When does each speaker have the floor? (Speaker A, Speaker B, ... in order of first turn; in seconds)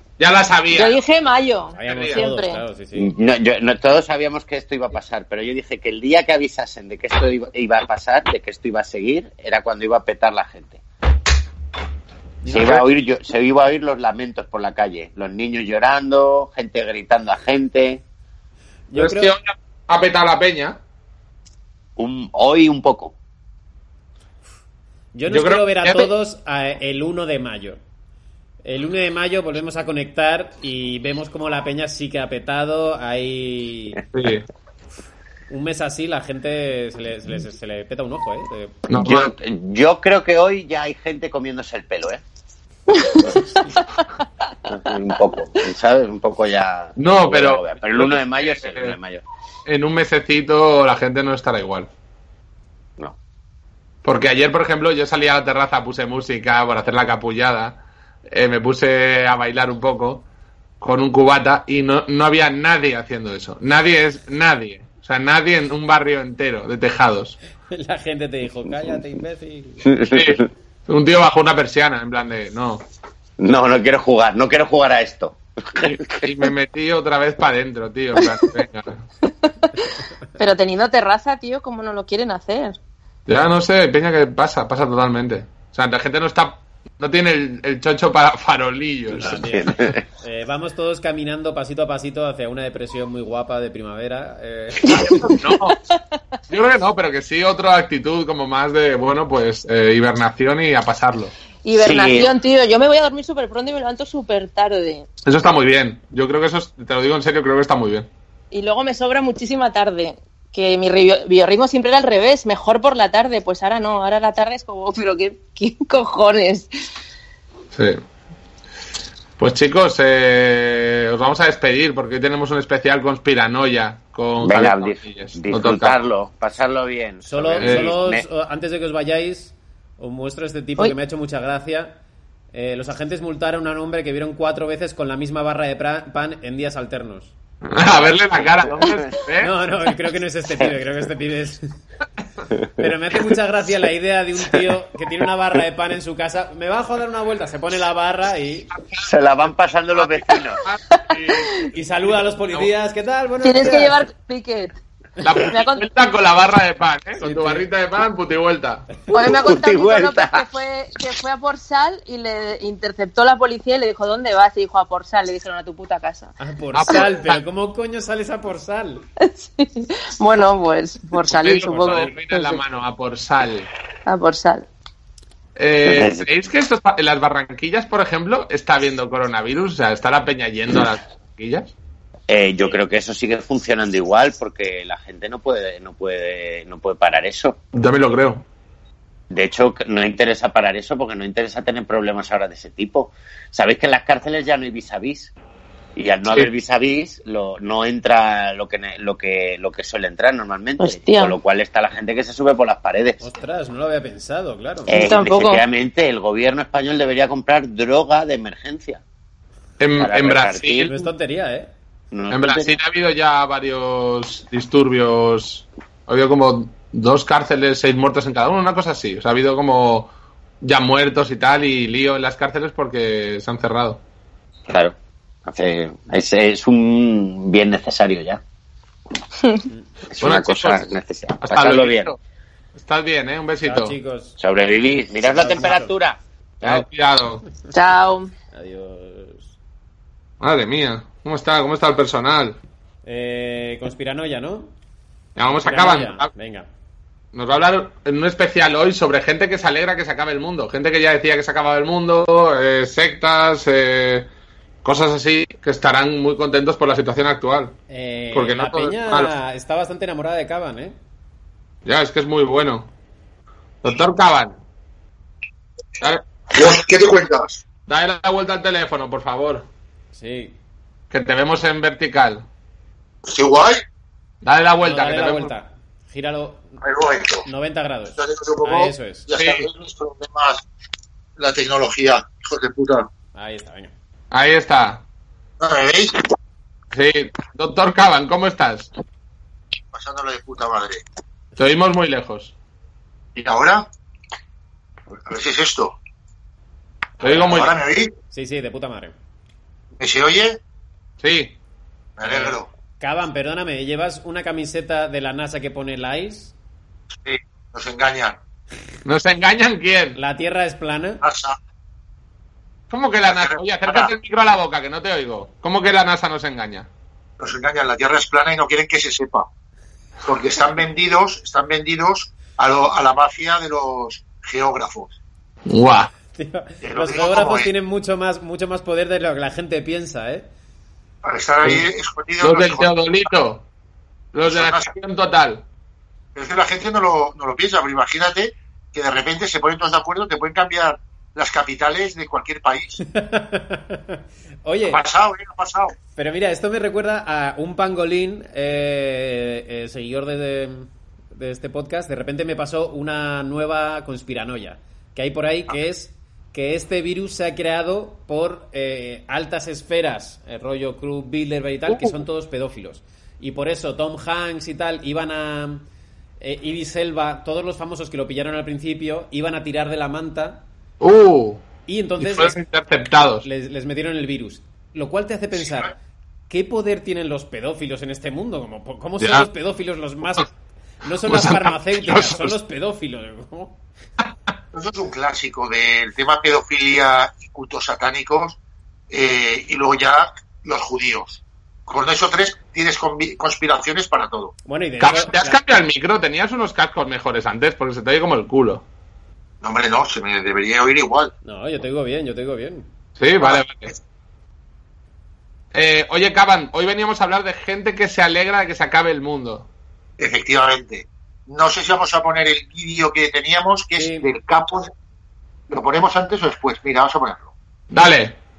Speaker A: 0.2-1.0, 1.9-2.2, 12.5-12.8, 18.9-20.8, 25.3-26.1, 34.1-34.5, 38.9-39.3, 47.0-49.0, 49.7-51.9, 54.0-60.2, 60.8-67.4, 70.1-72.8, 75.8-79.0, 83.3-89.5, 95.2-95.8, 96.5-101.3, 105.2-108.1, 117.7-118.0, 119.4-126.0, 127.6-127.9, 137.7-139.5, 148.8-149.1, 149.9-152.7, 155.2-158.9, 166.7-167.4, 171.3-173.7, 175.6-181.7, 187.7-188.4, 209.8-211.1, 212.3-220.1, 220.6-224.0, 230.2-230.8, 231.4-232.2, 232.8-234.0, 236.6-237.4, 240.4-242.6, 245.4-246.3, 247.3-254.3, 254.8-257.8, 258.3-259.3, 261.9-262.9, 263.8-264.6, 267.9-269.7, 271.1-272.5, 274.4-275.5, 279.3-279.7, 284.3-285.0, 286.9-288.9, 291.6-292.5, 297.2-297.8, 301.2-301.6, 309.1-310.2, 312.9-316.9, 325.7-326.1, 331.6-331.9, 332.4-333.7, 334.3-335.6, 361.9-362.1, 371.0-371.6, 372.2-373.5, 379.2-379.5, 381.3-382.5, 395.0-398.9, 403.2-403.9, 405.7-409.7, 417.9-418.4
Speaker B: 0.7-2.6, 42.9-43.3, 79.4-82.8, 95.7-96.0, 101.6-105.1, 108.5-116.7, 151.1-151.5, 153.4-154.8, 155.4-155.9, 159.1-166.3, 169.2-172.6, 174.1-174.7, 200.8-201.4, 204.9-205.6, 237.7-238.3
Speaker C: 1.7-3.1, 12.4-12.8, 18.9-19.3, 25.1-27.8, 28.6-34.0, 35.5-38.8, 67.7-69.9, 89.1-95.2, 127.3-132.0, 132.5-137.3, 139.4-141.8, 142.8-148.7, 151.7-154.0, 157.2-157.7, 166.4-169.0, 203.2-205.0, 210.9-211.7, 233.6-234.4, 235.2-235.9, 238.5-239.5, 243.1-244.7, 245.6-246.7, 257.9-261.0, 270.1-270.6, 274.8-276.8, 277.4-279.3, 283.4-283.9, 298.3-299.1, 302.2-306.5, 310.1-311.2, 326.4-330.5, 343.1-345.0, 346.2-365.8, 366.4-370.6, 371.9-372.6, 373.4-375.9, 376.5-383.8, 394.7-395.6, 401.4-402.9, 413.9-414.3
Speaker D: 3.0-10.8, 12.5-18.0, 22.0-23.1, 38.9-42.2, 44.7-49.2, 69.8-70.4, 73.4-76.3, 89.2-90.0, 101.7-102.3, 124.4-128.3, 138.3-139.1, 142.5-142.9, 149.0-150.6, 159.2-160.5, 175.8-176.3, 182.3-187.6, 189.3-195.3, 196.0-203.2, 204.9-209.0, 210.0-210.9, 212.1-212.8, 224.7-224.9, 225.5-228.4, 230.1-232.2, 234.4-236.9
Speaker E: 266.5-267.6, 273.2-273.8, 276.8-277.5, 278.1-280.6, 281.4-283.1, 285.6-286.2, 289.9-291.0, 293.4-293.9, 295.3-296.0, 297.2-298.1, 300.0-300.6, 302.2-302.7, 307.2-308.4, 311.2-311.6, 313.2-314.1, 317.4-319.5, 320.3-325.2, 326.8-327.7, 331.2-332.9, 334.5-334.9, 336.4-343.0, 344.9-345.9, 375.6-375.9, 384.7-388.6, 389.1-394.5, 399.6-401.3, 403.4-404.0, 410.2-414.9, 415.7-417.5